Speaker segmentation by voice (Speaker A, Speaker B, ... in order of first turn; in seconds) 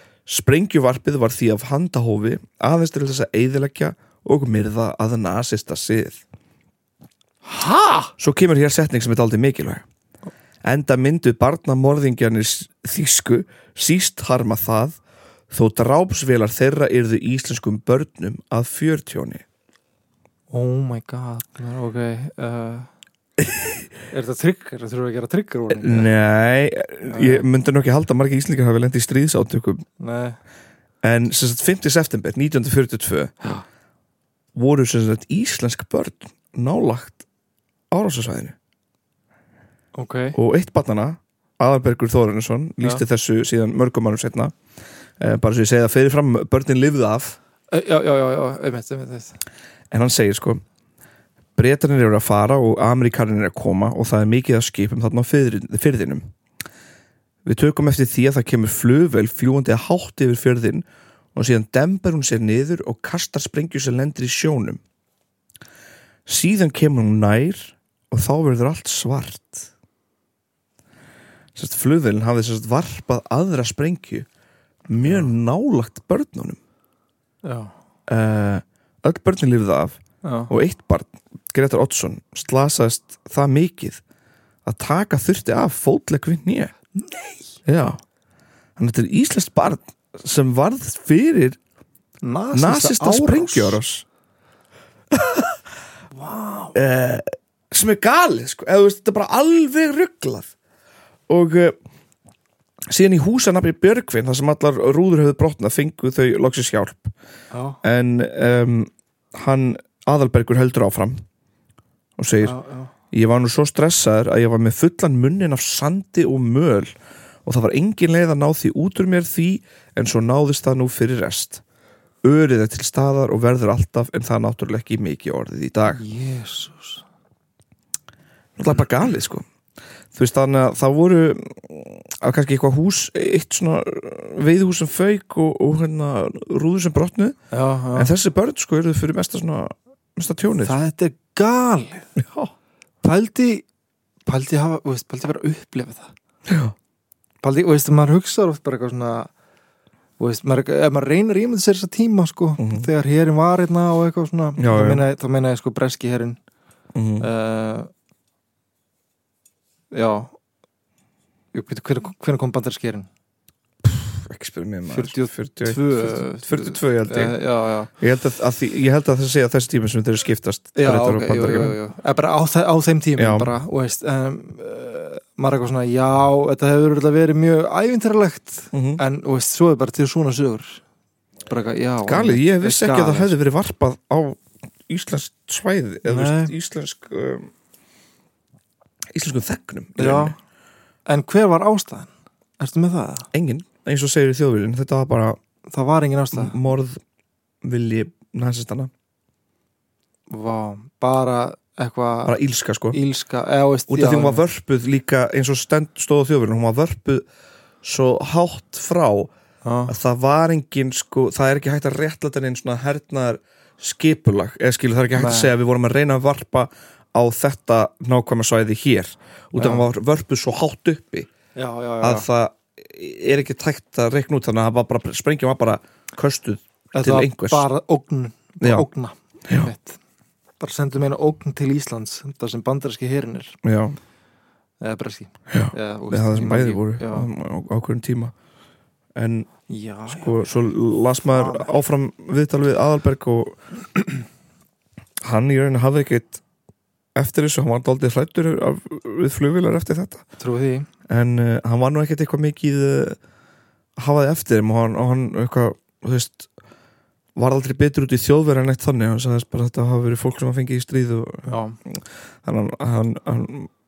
Speaker A: 0.2-6.2, 8.2-9.8, 10.6-15.0, 15.5-19.4, 23.4-23.8, 25.7-29.8, 31.0-33.3, 34.5-37.2, 37.9-38.5, 40.3-44.5, 45.2-47.4, 49.9-50.6, 51.5-56.2, 57.4-64.8, 66.2-69.7, 71.5-74.3, 74.9-76.6, 78.1-80.0, 80.5-84.0, 84.6-86.7, 87.7-88.0, 88.8-91.6, 92.5-94.0, 95.1-95.5, 96.7-100.5, 101.3-101.8, 102.9-107.1, 107.8-111.2, 112.2-112.6, 113.1-116.9, 117.4-121.6, 122.2-126.0, 128.6-129.4, 130.1-137.4, 137.9-140.8, 142.2-142.5, 146.5-146.7, 152.6-152.9, 154.6-155.0, 156.9-157.3, 163.8-167.4, 168.0-171.8, 173.2-173.5, 178.7-179.0, 182.1-187.5, 189.1-190.3, 193.3-195.4, 196.3-197.0, 197.6-198.9, 202.2-203.0, 203.9-207.2, 207.8-209.3, 209.9-221.3, 222.0-227.6, 228.6-228.8, 233.6-233.9, 235.5-238.3, 239.1-239.5, 240.1-243.6, 245.2-246.4, 247.1-250.2, 251.1-253.2, 254.0-256.5, 257.4-263.7
Speaker B: 7.5-8.1, 20.5-22.9, 24.1-26.1, 27.0-27.5, 30.0-30.4, 39.9-40.4, 47.7-49.4, 75.0-75.3, 77.4-77.7, 80.2-80.5, 86.9-87.6, 92.2-93.8, 96.1-96.8, 107.5-107.8, 112.4-112.9, 125.9-127.0, 137.5-138.1, 140.6-142.1, 143.0-143.7, 144.2-146.1, 147.4-149.3, 150.2-156.4, 157.2-157.9, 159.9-160.3, 161.5-163.1, 164.9-167.9, 170.8-180.8, 181.5-183.3, 186.0-186.5, 190.0-190.3, 191.1-193.3, 195.7-196.6, 200.3-202.4, 202.9-204.4, 209.6-209.9, 215.2-215.5, 219.6-219.9, 221.6-222.3, 226.9-230.0, 230.6-233.6, 234.8-237.3, 239.7-240.5, 241.3-241.7, 250.4-250.9, 261.5-261.8